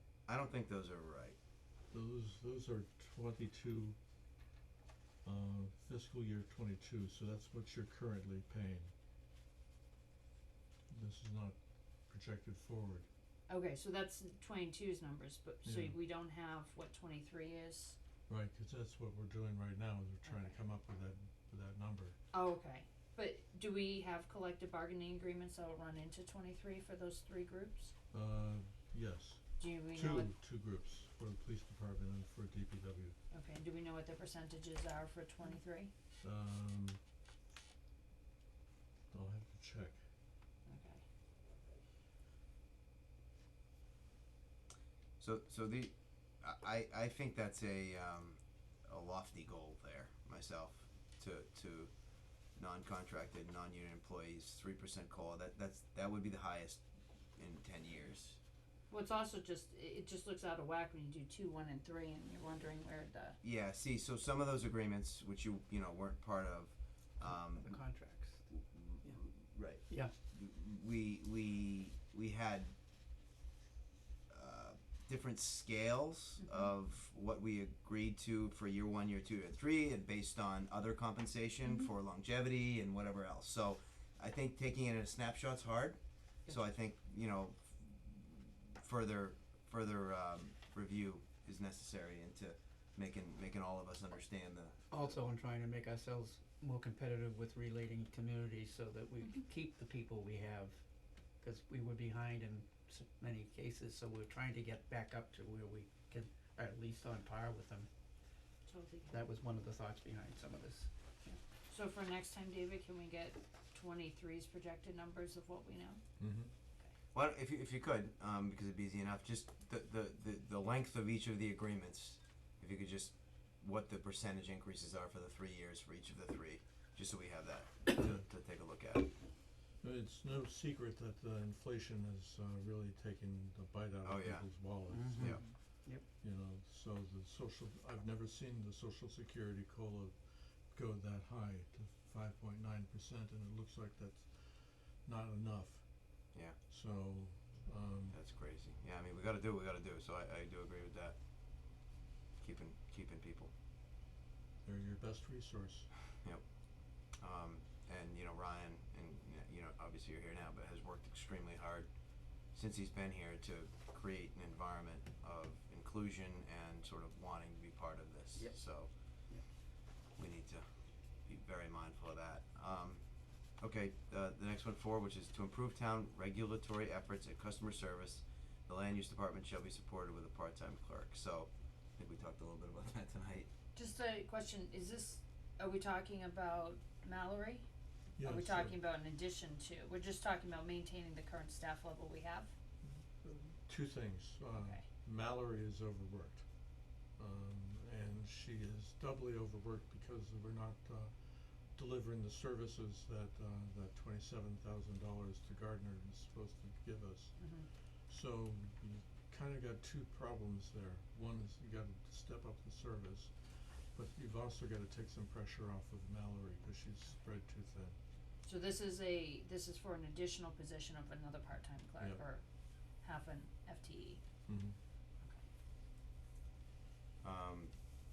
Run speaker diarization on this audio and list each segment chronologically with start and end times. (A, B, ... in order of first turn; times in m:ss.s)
0:00.3-0:01.4 A
0:01.9-0:04.0 B
0:05.2-0:08.9 B
0:10.9-0:11.6 B
0:12.1-0:13.1 B
0:13.5-0:18.0 C
0:15.6-0:16.0 B
0:18.3-0:22.2 B
0:20.2-0:20.6 C
0:22.3-0:27.9 C
0:28.1-0:33.2 B
0:29.6-0:30.3 C
0:33.3-0:35.9 C
0:36.2-0:37.0 B
0:39.1-0:40.0 B
0:40.7-0:41.0 C
0:45.2-0:51.9 A
0:52.6-0:56.8 A
0:57.4-0:58.4 A
0:58.9-1:03.4 C
1:03.4-1:07.7 A
1:07.2-1:08.5 D
1:08.5-1:12.7 A
1:14.3-1:35.2 A
1:16.4-1:16.7 C
1:34.9-1:40.8 D
1:41.4-1:47.9 D
1:48.7-1:49.2 C
1:49.1-1:51.4 D
1:51.7-1:56.0 C
1:56.2-1:56.5 B
1:57.1-2:09.1 A
2:09.8-2:25.9 B
2:14.0-2:14.5 A
2:14.9-2:16.0 D
2:15.2-2:15.4 A
2:26.7-2:28.2 B
2:28.1-2:31.2 A
2:32.4-2:33.5 A
2:34.6-2:35.9 B
2:37.2-2:41.9 A
2:42.5-2:48.9 A
2:50.2-2:50.6 A
2:51.3-2:53.0 A
2:53.6-3:03.5 A
3:03.8-3:07.7 C
3:08.2-3:08.8 B
3:08.2-3:12.5 C
3:12.8-3:16.4 B
3:14.6-3:14.8 C
3:17.2-3:38.0 B
3:27.4-3:27.7 C
3:38.5-3:42.4 C
3:42.0-3:42.2 B
3:43.0-3:44.2 C
3:44.5-3:44.8 B
3:47.2-3:47.7 A